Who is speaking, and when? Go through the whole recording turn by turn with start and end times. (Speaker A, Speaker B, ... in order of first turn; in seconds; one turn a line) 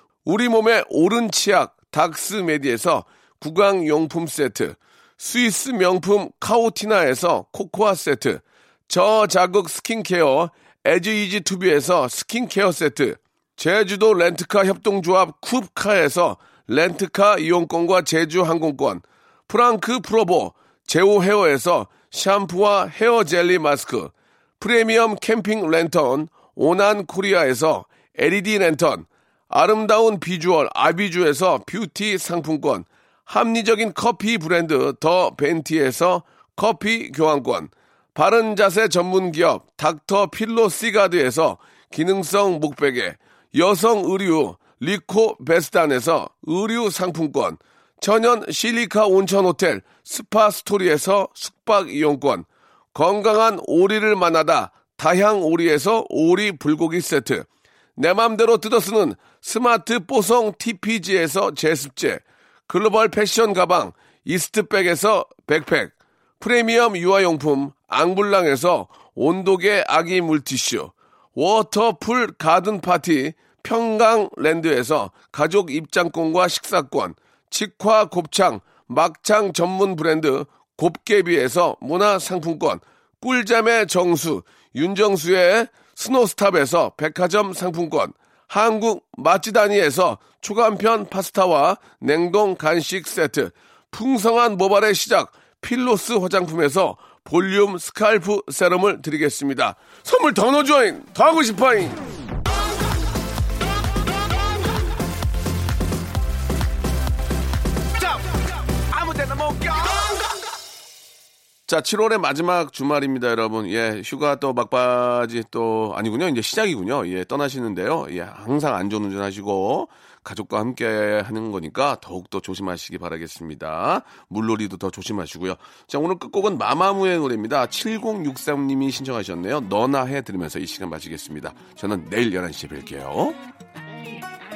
Speaker A: 0.2-102.1
Speaker A: 108.9-110.1
Speaker A: 111.7-133.4